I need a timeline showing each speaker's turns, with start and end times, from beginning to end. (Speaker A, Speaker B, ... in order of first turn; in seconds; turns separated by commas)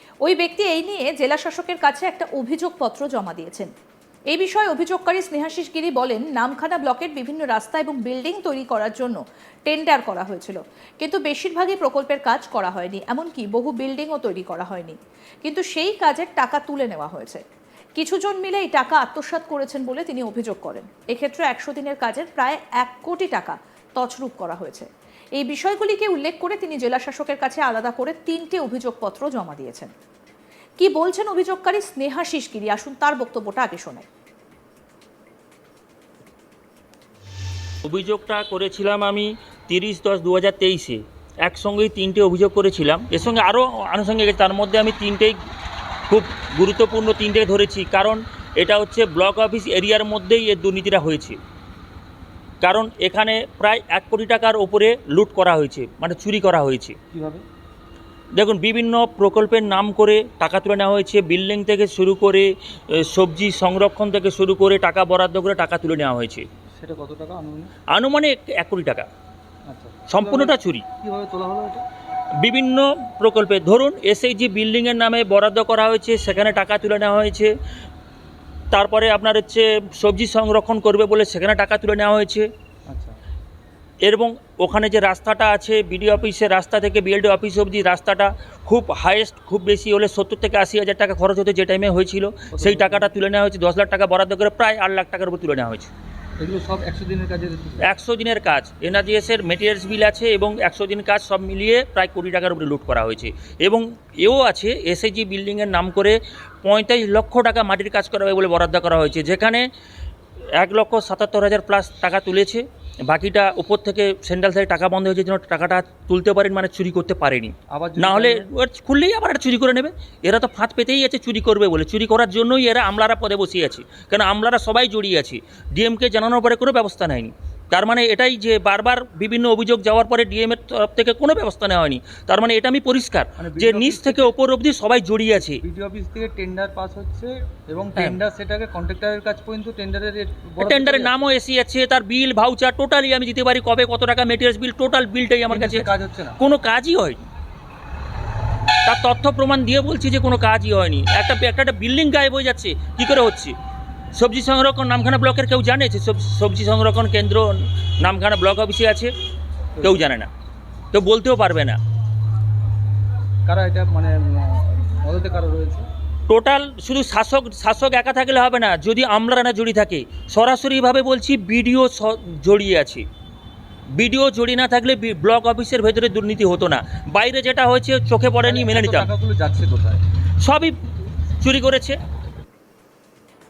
Speaker A: 0.2-3.7, Speaker A: 4.3-17.4, Speaker A: 18.0-29.9, Speaker A: 30.8-34.0, Speaker B: 37.9-45.4, Speaker B: 46.1-51.4, Speaker B: 52.6-57.0, Speaker C: 57.1-57.4, Speaker B: 58.4-66.5, Speaker C: 66.7-67.7, Speaker B: 67.9-69.1, Speaker C: 69.7-71.8, Speaker B: 70.1-70.8, Speaker B: 72.4-77.5, Speaker B: 78.7-82.5, Speaker C: 82.9-83.1, Speaker B: 84.0-95.9, Speaker C: 92.5-93.1, Speaker C: 96.4-97.9, Speaker B: 97.8-109.6, Speaker B: 110.6-135.6, Speaker C: 117.7-118.5, Speaker C: 133.4-134.3, Speaker C: 135.6-141.2, Speaker B: 140.6-147.2, Speaker C: 145.5-146.4, Speaker B: 148.9-153.6, Speaker B: 154.2-159.1, Speaker B: 159.8-160.3, Speaker B: 160.9-161.8, Speaker C: 163.5-165.9, Speaker B: 166.3-173.1, Speaker B: 174.0-179.1, Speaker C: 178.4-180.0, Speaker B: 180.4-180.7, Speaker B: 181.4-182.0